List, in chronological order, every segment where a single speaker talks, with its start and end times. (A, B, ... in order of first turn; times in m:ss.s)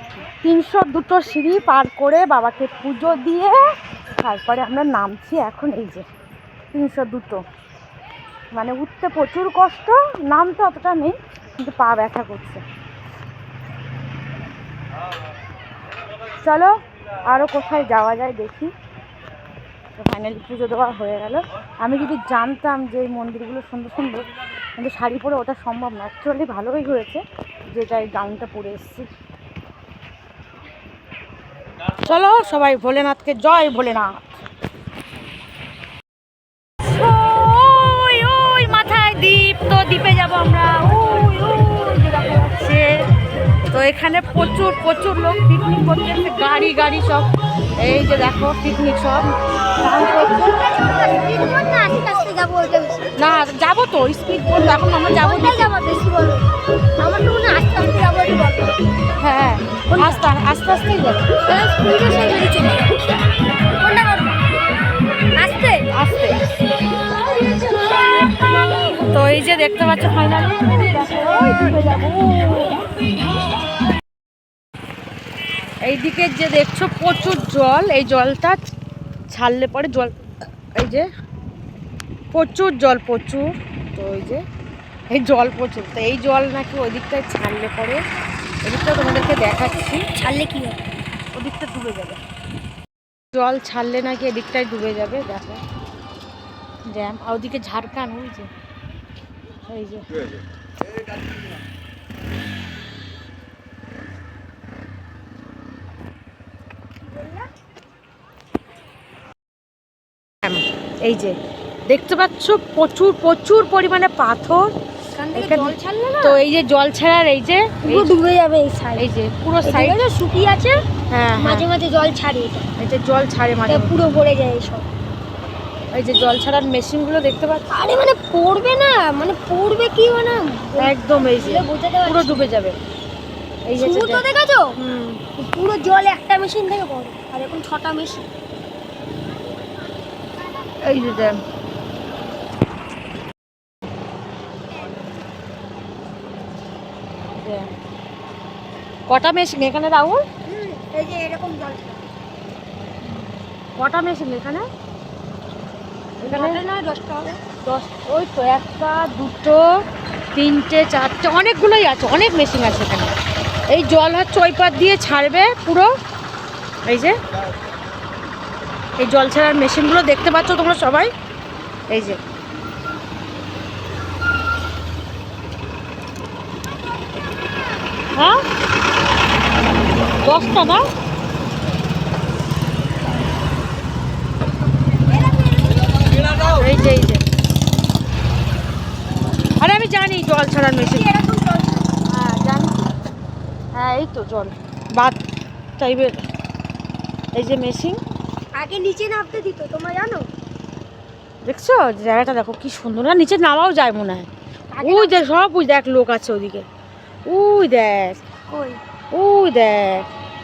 0:00.4-0:06.0 A
0:06.7-0:07.4 A
0:08.5-0:12.6 A
0:16.4-0:16.7 A
0:17.2-0:18.7 A
0:20.0-0:29.1 A
0:32.0-0:34.3 A
0:36.8-0:42.9 A
0:43.7-0:47.3 A
0:47.8-0:49.3 A
0:49.8-0:50.6 A
0:49.9-0:53.1 B
0:53.2-0:55.7 A
0:55.1-0:56.4 B
0:57.0-0:58.7 B
0:59.2-1:01.3 A
0:59.9-1:00.2 B
1:01.4-1:03.1 B
1:03.8-1:04.5 B
1:05.3-1:05.9 B
1:05.9-1:06.4 A
1:09.1-1:12.8 A
1:15.8-1:18.6 A
1:19.3-1:20.1 A
1:20.8-1:21.1 A
1:22.3-1:24.4 A
1:25.1-1:28.0 A
1:28.6-1:30.0 A
1:30.1-1:30.9 B
1:31.3-1:32.2 A
1:33.3-1:35.6 A
1:36.9-1:38.5 A
1:39.7-1:40.0 A
1:47.0-1:47.5 B
1:50.4-1:51.4 A
1:51.9-1:54.7 A
1:55.2-1:56.4 B
1:55.3-1:58.1 A
1:57.8-1:59.0 B
1:59.0-2:00.0 A
1:59.6-2:00.8 B
2:01.1-2:01.6 A
2:01.4-2:02.7 B
2:02.8-2:03.9 A
2:03.7-2:04.9 B
2:05.9-2:07.7 A
2:07.7-2:12.4 B
2:10.8-2:12.8 A
2:13.6-2:14.2 A
2:13.8-2:14.7 B
2:14.8-2:15.2 A
2:15.3-2:18.3 B
2:20.8-2:21.4 A
2:27.3-2:27.7 A
2:29.1-2:30.2 A
2:30.4-2:32.0 B
2:33.8-2:34.6 A
2:36.2-2:36.6 A
2:36.2-2:37.3 B
2:37.6-2:39.6 A
2:40.3-2:43.1 A
2:43.7-2:45.9 A
2:46.9-2:47.2 A
2:49.0-2:51.1 A
2:51.9-2:52.2 A
3:00.2-3:00.8 A
3:04.9-3:06.3 B
3:06.4-3:07.2 A
3:09.6-3:11.0 A
3:10.7-3:11.9 B
3:12.1-3:12.9 A
3:13.8-3:15.2 A
3:15.8-3:16.2 A
3:17.3-3:18.0 A
3:18.5-3:20.3 B
3:21.4-3:24.3 A
3:24.7-3:25.3 B
3:24.8-3:26.6 A
3:27.2-3:28.2 A
3:28.5-3:28.8 B
3:29.1-3:30.1 A